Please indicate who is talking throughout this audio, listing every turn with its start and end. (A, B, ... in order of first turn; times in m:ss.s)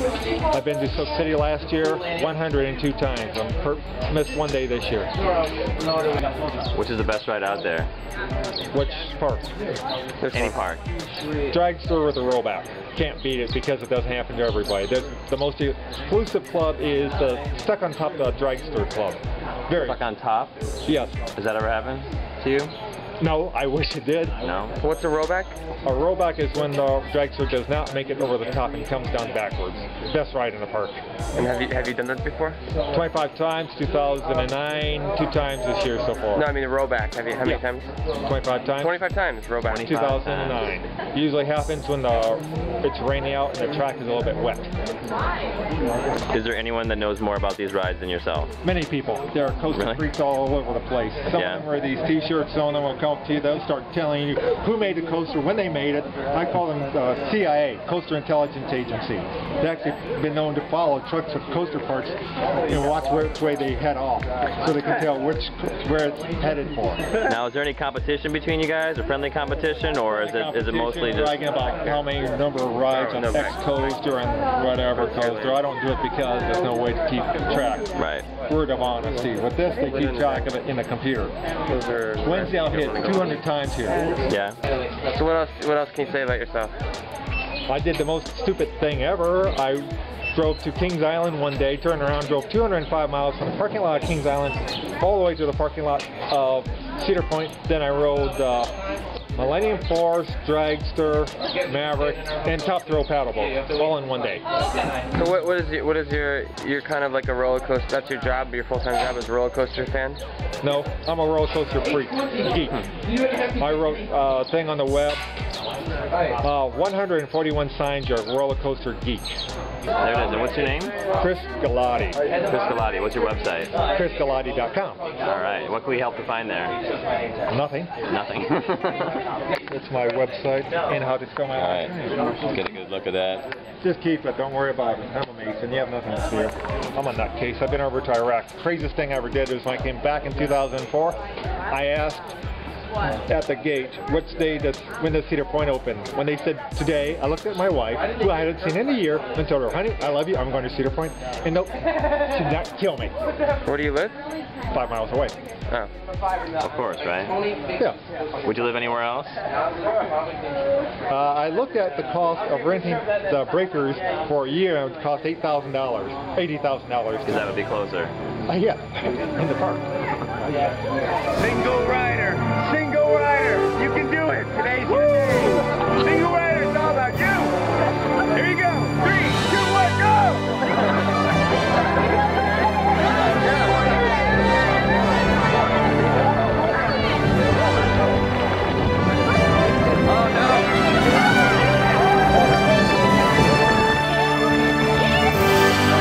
0:00.5-0:05.1 A
0:06.7-0:07.9 B
0:08.7-0:09.5 A
0:10.2-0:10.6 C
0:10.3-0:10.8 B
0:11.5-0:20.0 A
0:19.7-0:20.5 B
0:20.8-0:21.1 A
0:21.3-0:22.7 B
0:23.2-0:24.4 A
0:24.4-0:24.7 B
0:24.8-0:25.6 C
0:25.8-0:31.0 A
0:31.4-0:32.6 C
0:32.9-0:36.5 A
0:36.3-0:37.9 C
0:38.2-0:39.0 A
0:38.7-0:40.1 C
0:39.7-0:40.7 B
0:39.9-0:44.7 A
0:46.3-0:48.5 B
0:48.6-1:07.0 A
0:49.7-0:50.1 B
0:51.3-0:51.6 B
1:07.2-1:11.5 B
1:10.2-1:17.9 A
1:12.9-1:13.6 C
1:14.9-1:15.6 C
1:17.9-1:18.3 B
1:18.4-1:21.3 A
1:19.9-1:20.5 C
1:21.6-1:23.4 C
1:22.2-1:24.1 A
1:24.3-1:24.6 B
1:25.1-1:26.7 C
1:27.7-1:38.7 A
1:39.3-1:44.4 A
1:45.1-1:50.2 C
1:50.6-1:52.9 A
1:53.6-1:55.2 A
1:56.4-1:59.4 A
2:00.0-2:01.0 B
2:01.2-2:02.2 A
2:02.5-2:03.8 B
2:03.9-2:05.0 A
2:05.2-2:06.8 B
2:07.5-2:07.9 A
2:08.1-2:09.2 B
2:09.7-2:12.2 A
2:11.6-2:13.5 B
2:13.8-2:21.2 A
2:21.7-2:22.2 A
2:23.3-2:33.1 A
2:33.6-2:34.2 C
2:34.7-2:35.4 A
2:36.6-2:37.4 B
2:37.7-2:38.0 A
2:38.4-2:39.4 B
2:41.1-2:47.5 A
2:47.2-2:48.1 B
2:48.5-2:49.9 A
2:51.4-2:52.6 D
2:53.2-2:53.9 D
2:54.6-2:55.5 D
2:56.4-2:57.0 D
2:58.4-2:59.8 D
3:10.1-3:10.7 B